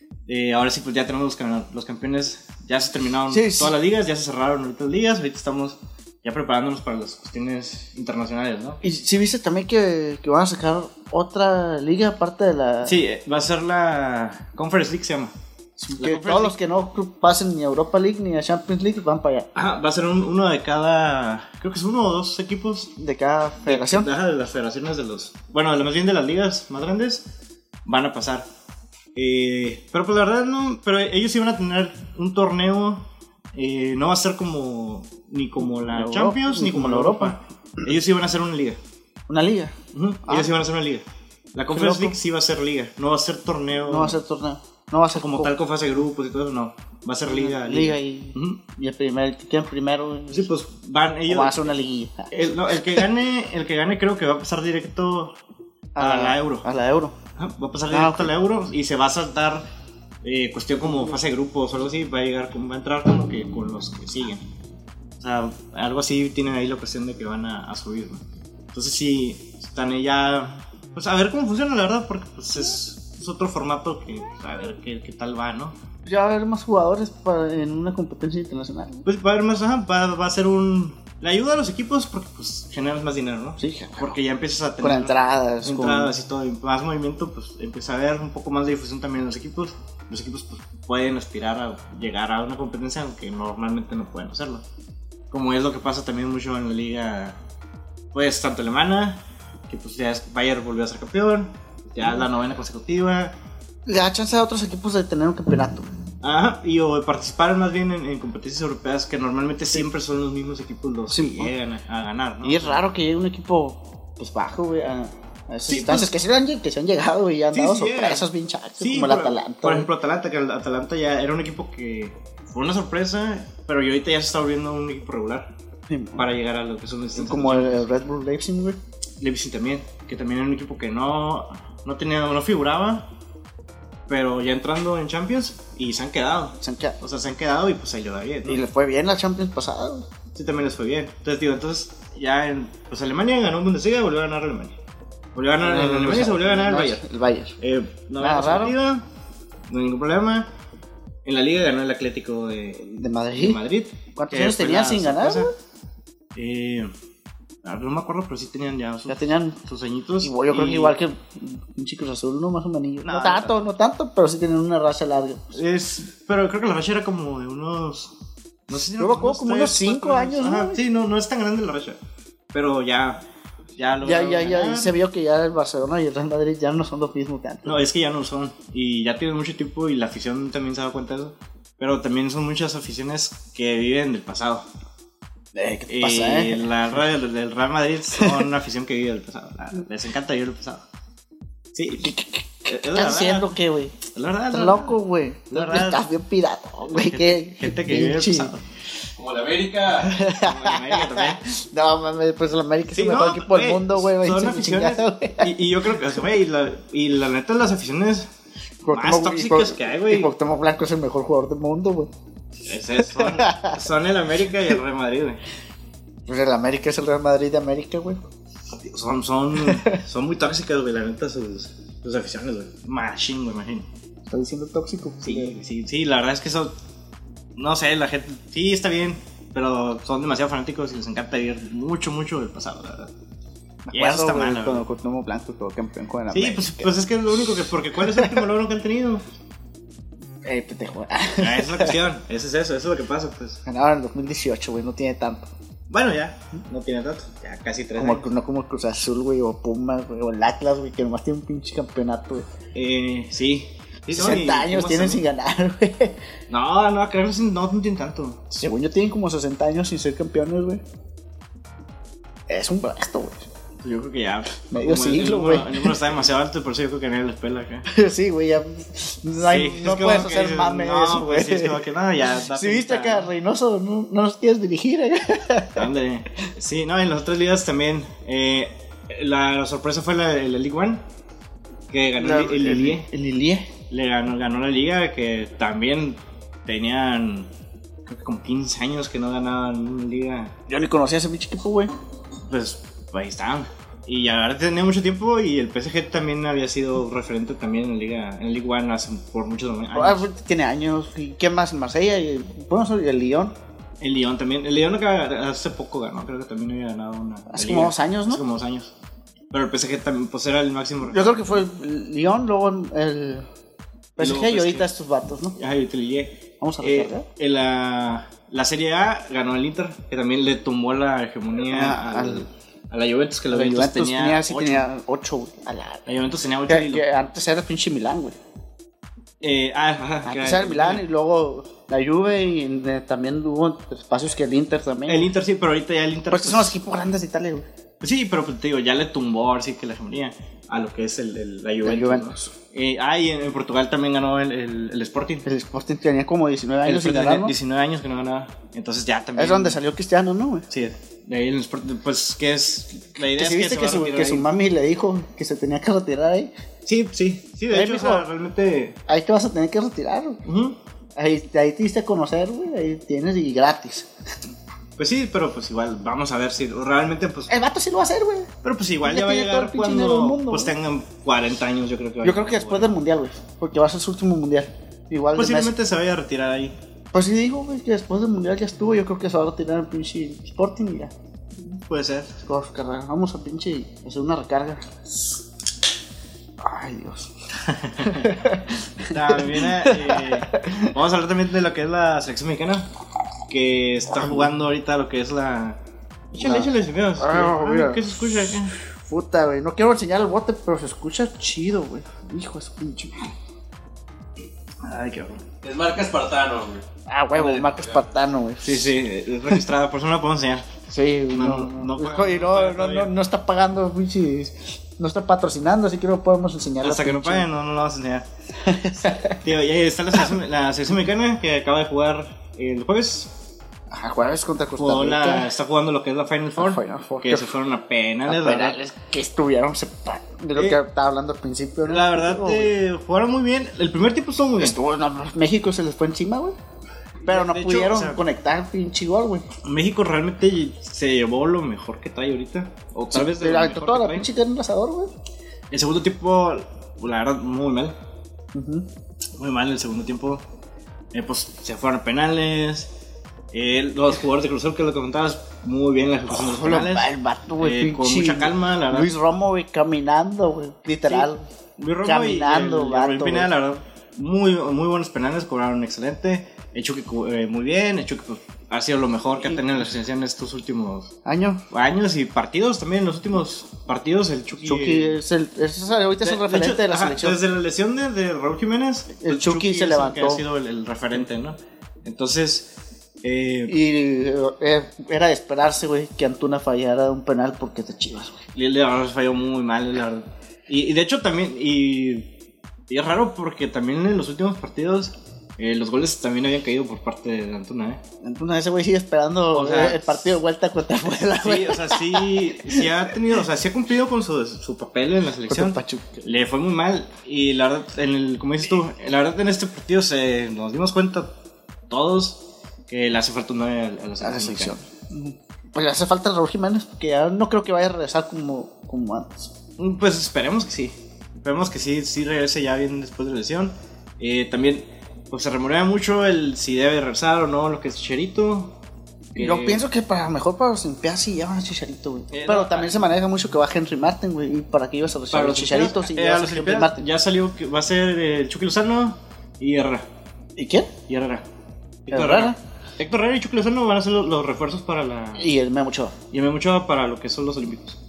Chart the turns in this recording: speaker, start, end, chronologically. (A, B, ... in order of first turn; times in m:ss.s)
0:00.3-0:08.8 A
0:03.3-0:03.7 B
0:08.8-0:13.0 B
0:12.8-0:15.3 A
0:15.8-0:19.5 B
0:16.0-0:16.5 A
0:19.5-0:22.9 A
0:23.0-0:24.1 B
0:23.6-0:27.3 A
0:27.8-0:28.5 A
0:29.1-0:38.8 A
0:35.7-0:37.4 B
0:39.3-0:40.5 B
0:39.9-0:44.2 A
0:41.7-0:42.2 B
0:43.9-0:45.5 B
0:45.1-0:48.6 A
0:47.3-0:50.5 B
0:50.3-0:51.7 A
0:51.3-0:53.0 B
0:52.3-0:55.4 A
0:55.9-0:57.1 B
0:56.0-0:56.6 A
0:57.4-0:59.6 A
0:57.9-0:58.3 B
1:00.2-1:04.4 A
1:05.2-1:15.8 A
1:16.0-1:19.0 B
1:19.0-1:34.6 A
1:23.6-1:24.2 B
1:24.8-1:26.1 B
1:35.3-1:37.4 A
1:38.1-1:43.4 A
1:43.8-1:45.9 B
1:46.2-1:52.8 A
1:51.1-1:51.5 B
1:52.4-1:59.9 B
1:55.7-1:56.2 A
1:57.5-1:58.3 A
1:58.8-2:05.5 A
2:05.9-2:06.3 B
2:06.2-2:07.9 A
2:07.2-2:08.8 B
2:09.2-2:13.1 A
2:14.1-2:18.6 A
2:16.6-2:17.0 B
2:18.4-2:20.1 B
2:20.3-2:24.8 A
2:25.3-2:27.0 A
2:25.6-2:27.6 B
2:27.6-2:29.0 A
2:28.2-2:28.8 B
2:29.7-2:30.5 A
2:31.2-2:32.8 A
2:32.8-2:33.6 B
2:33.4-2:35.5 A
2:34.2-2:35.5 B
2:36.3-2:36.9 A
2:37.6-2:41.0 A
2:39.1-2:39.6 B
2:40.2-2:45.6 B
2:43.0-2:43.7 A
2:45.5-2:48.1 A
2:48.7-2:52.0 A
2:49.0-2:50.8 B
2:52.5-2:53.2 A
2:53.8-2:54.9 A
2:54.0-2:57.8 B
2:57.6-3:04.6 A
3:05.5-3:06.7 B
3:05.9-3:10.8 A
3:11.7-3:12.1 A
3:12.0-3:14.0 B
3:12.7-3:15.0 A
3:14.5-3:18.5 B
3:15.5-3:16.0 A
3:16.8-3:18.6 A
3:19.2-3:19.8 C
3:19.9-3:25.5 B
3:20.1-3:21.4 A
3:22.9-3:28.3 A
3:28.8-3:32.1 B
3:28.9-3:30.3 A
3:32.6-3:35.4 A
3:33.0-3:33.8 B
3:36.3-3:38.2 B
3:38.8-3:43.9 A
3:39.6-3:40.0 B
3:44.3-3:45.5 B
3:45.2-3:46.7 A
3:47.6-3:53.1 A
3:53.8-3:56.9 B
3:53.9-3:54.8 A
3:56.3-3:59.2 A
3:58.1-3:58.4 B
4:00.4-4:02.0 B
4:01.4-4:03.6 A
4:03.6-4:05.5 B
4:05.9-4:08.3 A
4:08.0-4:12.5 B
4:12.7-4:15.2 A
4:14.1-4:16.2 B
4:16.5-4:18.6 A
4:18.6-4:20.8 B
4:22.5-4:23.5 B
4:23.8-4:27.8 A
4:24.7-4:26.0 B
4:27.9-4:31.8 B
4:29.4-4:33.3 A
4:32.5-4:35.9 B
4:35.8-4:41.0 A
4:41.9-4:43.1 A
4:42.2-4:43.7 B
4:43.9-4:47.5 A
4:48.0-4:50.5 A
4:50.7-4:51.9 B
4:52.4-5:00.2 A
4:59.9-5:03.5 B
5:04.0-5:08.9 A
5:07.5-5:08.4 B
5:09.5-5:11.6 A
5:11.1-5:13.4 B
5:14.2-5:15.6 B
5:14.2-5:14.9 A
5:15.6-5:24.9 A
5:16.6-5:17.3 B
5:21.7-5:22.4 B
5:23.5-5:26.0 B
5:26.0-5:27.0 A
5:26.7-5:28.4 B
5:29.4-5:31.0 A
5:30.2-5:35.3 B
5:35.1-5:36.8 A
5:36.3-5:37.6 B
5:38.0-5:45.4 A
5:41.8-5:42.5 B
5:45.4-5:47.5 B
5:46.8-5:49.8 A
5:49.4-5:50.7 B
5:50.7-5:54.5 A
5:53.2-5:56.5 B
5:56.8-5:59.0 A
5:57.7-5:58.2 B
5:59.1-6:00.4 B
6:00.4-6:00.8 A
6:01.2-6:04.1 B
6:05.0-6:07.5 A
6:07.5-6:08.5 B
6:08.6-6:13.0 A
6:09.0-6:10.7 B
6:12.2-6:15.7 B
6:15.3-6:16.7 A
6:17.1-6:21.1 B
6:21.8-6:22.4 A
6:22.4-6:25.0 B
6:26.6-6:27.3 B
6:27.6-6:28.3 A
6:28.0-6:30.9 B
6:29.1-6:32.9 A
6:33.5-6:35.8 A
6:36.3-6:38.7 A
6:36.4-6:38.1 B
6:39.0-6:43.3 B
6:44.8-6:45.6 A
6:45.6-6:46.8 C
6:47.1-6:48.9 B
6:47.4-6:47.7 A
6:48.6-6:50.7 A
6:50.9-6:57.4 B
6:51.3-6:53.1 A
6:56.8-6:58.3 A
6:58.6-6:59.4 B
6:59.3-7:03.3 A
7:03.9-7:05.5 B
7:04.8-7:08.8 A
7:06.6-7:07.5 B
7:08.3-7:12.7 B
7:11.8-7:14.8 A
7:14.6-7:16.6 B
7:17.2-7:19.4 B
7:17.2-7:18.2 A
7:19.6-7:24.3 A
7:23.1-7:25.1 B
7:25.7-7:27.9 A
7:28.5-7:28.8 B
7:29.4-7:30.4 A
7:31.1-7:32.9 A
7:33.5-7:39.1 A
7:36.3-7:41.4 B
7:41.0-7:51.1 A
7:42.0-7:43.5 B
7:49.4-7:49.7 B
7:51.2-7:51.6 B
7:51.7-7:55.2 A
7:54.6-7:57.4 B
7:56.2-8:02.7 A
7:59.2-8:00.4 B
8:03.2-8:03.8 A
8:03.7-8:08.4 B
8:08.5-8:12.3 A
8:12.9-8:18.0 A
8:18.2-8:22.9 B
8:19.5-8:20.4 A
8:21.3-8:31.3 A
8:25.5-8:26.2 B
8:31.9-8:34.8 A
8:34.2-8:39.5 B
8:39.8-8:48.8 A
8:49.3-8:49.8 A
8:49.4-8:57.0 B
8:52.3-8:52.9 A
8:55.3-9:00.1 A
9:00.6-9:00.9 B
9:01.1-9:01.4 A
9:02.0-9:05.5 A
9:02.1-9:02.6 B
9:05.4-9:06.2 B
9:06.3-9:08.0 A